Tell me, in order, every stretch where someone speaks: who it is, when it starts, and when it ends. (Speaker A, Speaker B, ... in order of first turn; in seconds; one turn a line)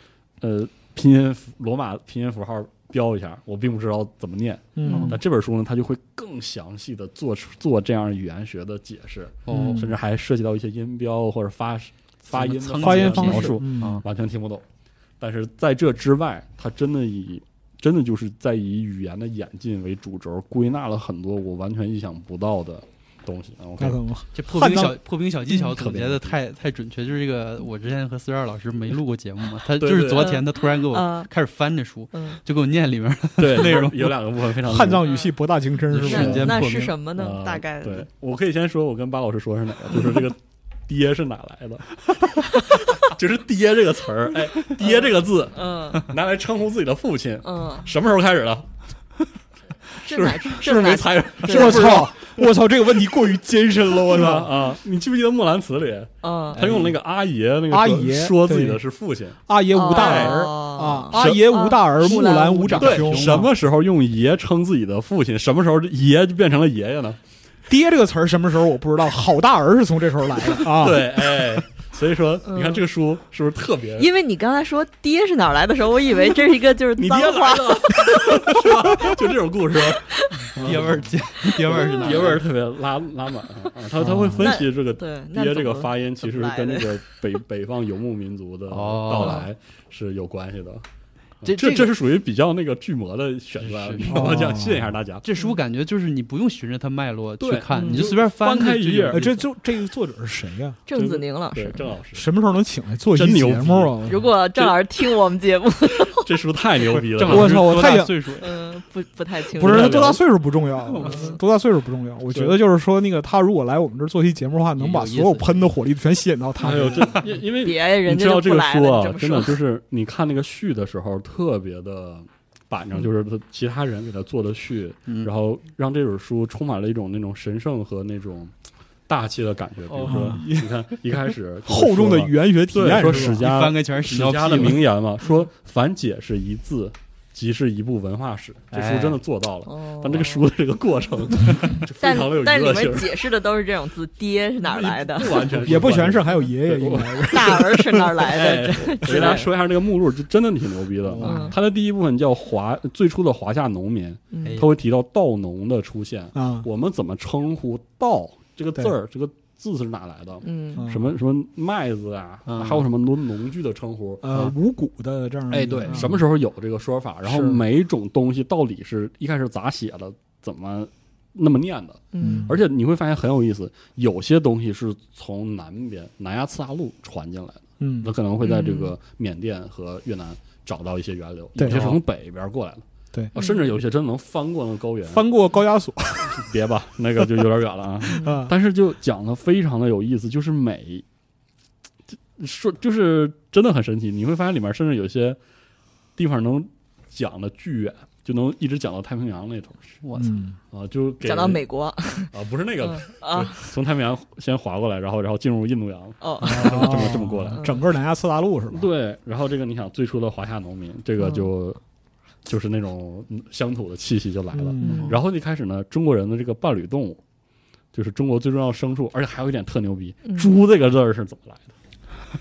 Speaker A: 0.4-14.7
Speaker B: 4.8-5.2
Speaker C: 4.9-5.2
Speaker D: 4.9-5.2
Speaker C: 9.5-9.8
Speaker B: 9.5-9.9
Speaker C: 12.3-14.0
Speaker B: 12.8-14.0
Speaker A: 15.2-24.0
Speaker B: 23.8-25.0
Speaker C: 24.3-34.1
Speaker A: 25.6-26.4
Speaker A: 29.8-30.4
Speaker D: 30.1-31.3
Speaker D: 32.1-32.4
Speaker A: 33.4-35.1
Speaker B: 34.6-36.9
Speaker D: 35.0-35.4
Speaker A: 35.9-36.5
Speaker C: 35.9-36.9
Speaker D: 36.0-38.1
Speaker A: 37.2-48.7
Speaker D: 44.8-46.1
Speaker D: 47.4-47.9
Speaker A: 50.0-52.4
Speaker D: 50.0-52.1
Speaker B: 51.5-54.5
Speaker A: 54.0-59.4
Speaker D: 56.2-56.7
Speaker C: 56.5-57.0
Speaker B: 57.7-58.8
Speaker B: 59.5-63.5
Speaker D: 59.7-63.0
Speaker A: 59.9-60.4
Speaker A: 61.1-61.8
Speaker C: 62.8-63.5
Speaker A: 62.8-67.2
Speaker B: 67.7-71.4
Speaker A: 70.6-74.1
Speaker D: 72.5-72.8
Speaker D: 74.0-79.1
Speaker A: 77.0-90.8
Speaker D: 80.0-80.5
Speaker C: 80.4-82.4
Speaker B: 80.6-80.9
Speaker D: 81.6-82.4
Speaker B: 84.0-84.6
Speaker D: 84.4-87.0
Speaker C: 88.7-89.5
Speaker D: 89.2-89.5
Speaker A: 91.4-95.2
Speaker C: 91.5-91.9
Speaker C: 93.6-94.5
Speaker B: 94.0-94.9
Speaker C: 95.2-99.4
Speaker A: 97.4-99.3
Speaker D: 97.7-98.1
Speaker B: 99.1-100.8
Speaker D: 100.9-101.8
Speaker A: 101.0-102.3
Speaker B: 102.1-104.3
Speaker A: 103.1-104.0
Speaker D: 104.1-106.3
Speaker A: 106.1-107.8
Speaker B: 107.0-108.2
Speaker C: 107.2-108.6
Speaker D: 108.4-110.0
Speaker B: 109.5-117.3
Speaker A: 109.6-110.2
Speaker C: 110.9-111.2
Speaker D: 111.0-111.4
Speaker C: 114.8-115.7
Speaker A: 116.6-128.5
Speaker C: 116.7-117.2
Speaker D: 117.6-119.6
Speaker A: 129.1-143.1
Speaker C: 129.9-130.6
Speaker B: 130.0-133.5
Speaker C: 133.1-134.8
Speaker C: 138.7-139.2
Speaker D: 139.7-140.5
Speaker D: 142.0-145.5
Speaker A: 144.6-164.3
Speaker B: 145.5-148.1
Speaker D: 147.2-149.5
Speaker B: 151.0-151.6
Speaker D: 151.2-151.6
Speaker D: 154.3-154.6
Speaker B: 156.3-156.7
Speaker D: 160.4-160.9
Speaker B: 160.8-161.2
Speaker C: 162.5-162.9
Speaker B: 164.2-166.2
Speaker A: 165.5-185.3
Speaker B: 167.2-167.6
Speaker D: 172.1-172.5
Speaker B: 172.2-172.6
Speaker B: 177.8-178.1
Speaker D: 178.4-179.0
Speaker B: 181.6-182.0
Speaker C: 181.7-182.0
Speaker D: 183.3-183.7
Speaker B: 185.1-186.5
Speaker A: 186.3-191.0
Speaker B: 188.1-188.5
Speaker A: 192.4-195.4
Speaker A: 196.2-199.8
Speaker C: 200.0-200.4
Speaker B: 200.2-200.6
Speaker A: 200.7-201.6
Speaker D: 201.2-203.7
Speaker A: 202.3-207.6
Speaker D: 206.2-207.8
Speaker B: 206.4-208.9
Speaker A: 208.7-211.8
Speaker D: 211.2-211.5
Speaker A: 212.4-217.2
Speaker B: 214.5-215.1
Speaker D: 214.8-215.1
Speaker C: 214.8-215.2
Speaker A: 217.9-221.7
Speaker D: 220.2-220.5